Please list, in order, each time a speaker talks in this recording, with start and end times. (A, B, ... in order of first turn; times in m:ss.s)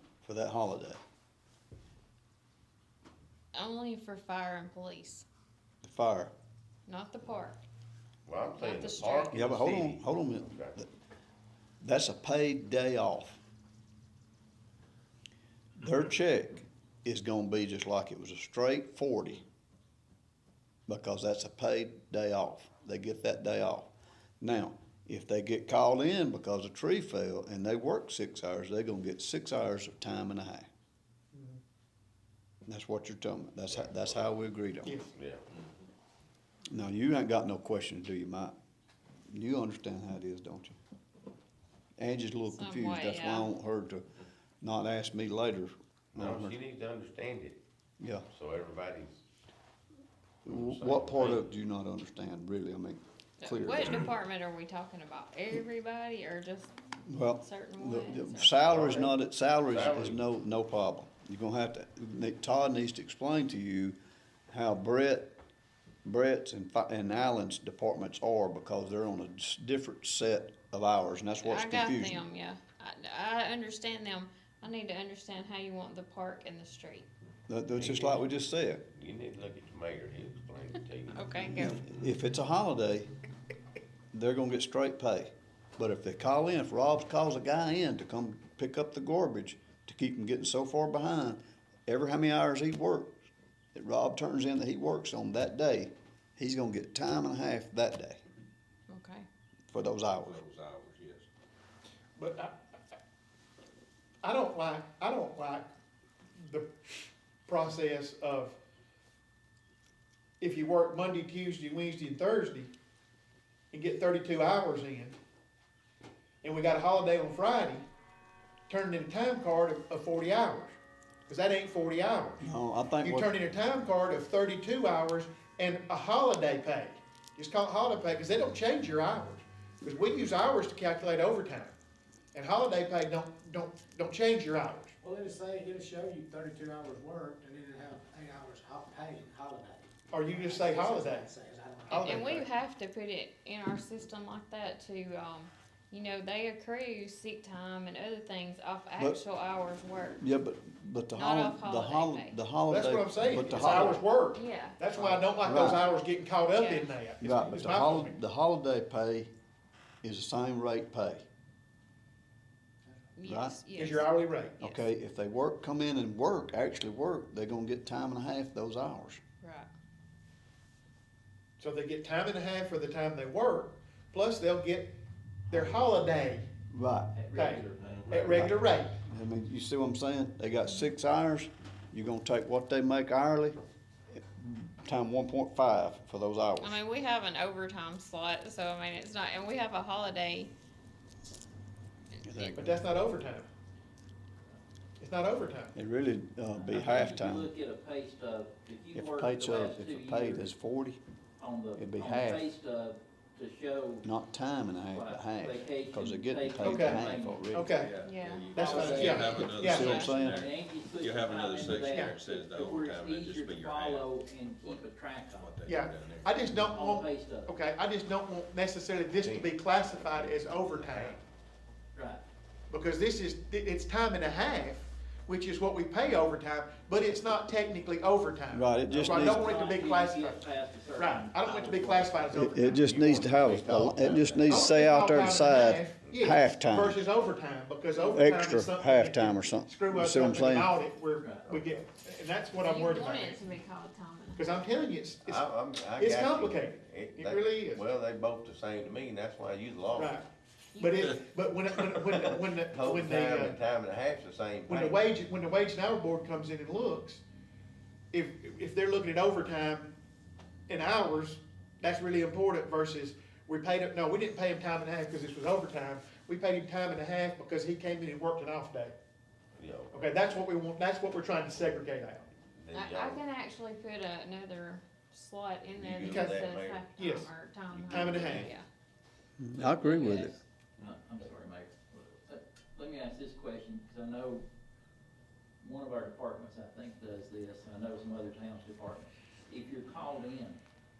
0:00.2-0:01.0 A
0:03.5-0:05.2 B
0:05.8-0:06.3 A
0:06.9-0:07.6 B
0:08.2-0:10.8 C
0:08.5-0:09.4 B
0:09.3-0:10.9 A
0:11.8-0:13.4 A
0:15.8-0:19.4 A
0:20.9-0:30.7 A
0:31.3-0:31.6 D
0:32.7-0:34.9 A
0:34.8-0:35.1 D
0:35.1-0:35.4 C
0:36.7-0:38.5 A
0:39.3-0:40.8 A
0:42.0-0:44.0 A
0:42.5-0:43.5 B
0:44.6-0:46.6 A
0:46.1-0:47.6 C
0:48.0-0:48.2 A
0:48.3-0:49.2 C
0:50.4-0:54.1 A
0:50.5-0:51.4 C
0:53.4-0:58.8 B
0:57.1-1:04.0 A
0:58.6-1:00.2 C
1:04.5-1:05.4 A
1:06.0-1:12.2 A
1:11.4-1:17.1 B
1:17.5-1:18.8 A
1:17.8-1:18.3 C
1:18.9-1:21.6 C
1:21.1-1:21.9 B
1:21.6-1:23.1 A
1:24.1-1:33.1 A
1:33.7-1:38.2 A
1:38.9-1:39.3 B
1:39.7-1:40.4 A
1:40.2-1:41.3 E
1:42.2-1:42.5 D
1:44.2-1:45.7 D
1:46.4-1:46.7 D
1:47.5-1:48.6 D
1:50.4-1:52.7 D
1:53.7-1:55.2 D
1:56.4-1:57.8 D
1:58.7-2:00.8 D
2:01.3-2:02.4 D
2:02.4-2:03.3 A
2:03.0-2:11.7 D
2:12.3-2:14.9 D
2:15.0-2:22.4 F
2:20.1-2:21.3 D
2:21.9-2:22.5 D
2:21.9-2:30.2 B
2:30.2-2:34.0 A
2:31.1-2:32.4 B
2:32.7-2:38.1 D
2:33.6-2:34.9 B
2:35.1-2:35.8 A
2:36.5-2:37.0 B
2:37.2-2:39.3 A
2:40.0-2:41.2 A
2:43.2-2:44.8 B
2:43.2-2:43.6 A
2:43.7-2:44.6 D
2:44.6-2:49.2 A
2:49.4-2:49.7 B
2:51.6-2:55.0 D
2:55.5-2:56.4 D
2:56.7-2:57.1 A
2:57.1-2:58.1 G
2:57.3-2:58.9 D
2:58.3-3:03.6 A
3:04.1-3:06.8 A
3:06.6-3:10.5 B
3:12.2-3:12.7 B
3:12.3-3:12.7 A
3:12.6-3:13.5 D
3:15.0-3:15.7 D
3:15.7-3:17.5 A
3:16.6-3:20.5 G
3:18.9-3:21.0 A
3:21.4-3:24.0 G
3:21.7-3:22.4 A
3:24.0-3:27.7 A
3:24.9-3:27.4 G
3:26.6-3:27.9 D
3:27.7-3:36.5 E
3:28.0-3:30.1 B
3:28.5-3:30.0 D
3:28.6-3:29.2 G
3:29.6-3:30.4 A
3:29.8-3:35.6 G
3:35.6-3:41.2 D
3:36.7-3:37.5 G
3:39.2-3:41.2 C
3:41.9-3:42.2 G
3:42.7-4:03.5 D
3:48.5-3:49.5 A
3:48.9-3:52.6 G
3:52.3-3:57.0 A
3:52.8-3:54.5 C
3:53.9-3:54.7 G
3:58.1-4:00.7 A
4:01.2-4:01.5 G
4:01.3-4:01.8 C
4:02.5-4:04.6 B
4:04.3-4:05.4 D
4:05.2-4:10.2 C
4:06.0-4:07.8 D
4:09.9-4:13.6 D
4:10.7-4:11.1 B
4:12.0-4:15.0 C
4:14.7-4:17.2 D
4:18.1-4:20.0 D
4:20.7-4:28.9 D
4:29.6-4:30.1 C
4:29.9-4:32.3 D
4:32.5-4:33.2 C
4:32.7-4:38.6 B
4:35.7-4:36.9 C
4:36.1-4:36.4 D
4:36.9-4:37.3 D
4:37.7-4:38.5 C
4:37.9-4:38.5 D
4:39.4-4:40.3 A
4:39.6-4:44.4 G
4:45.6-4:50.6 G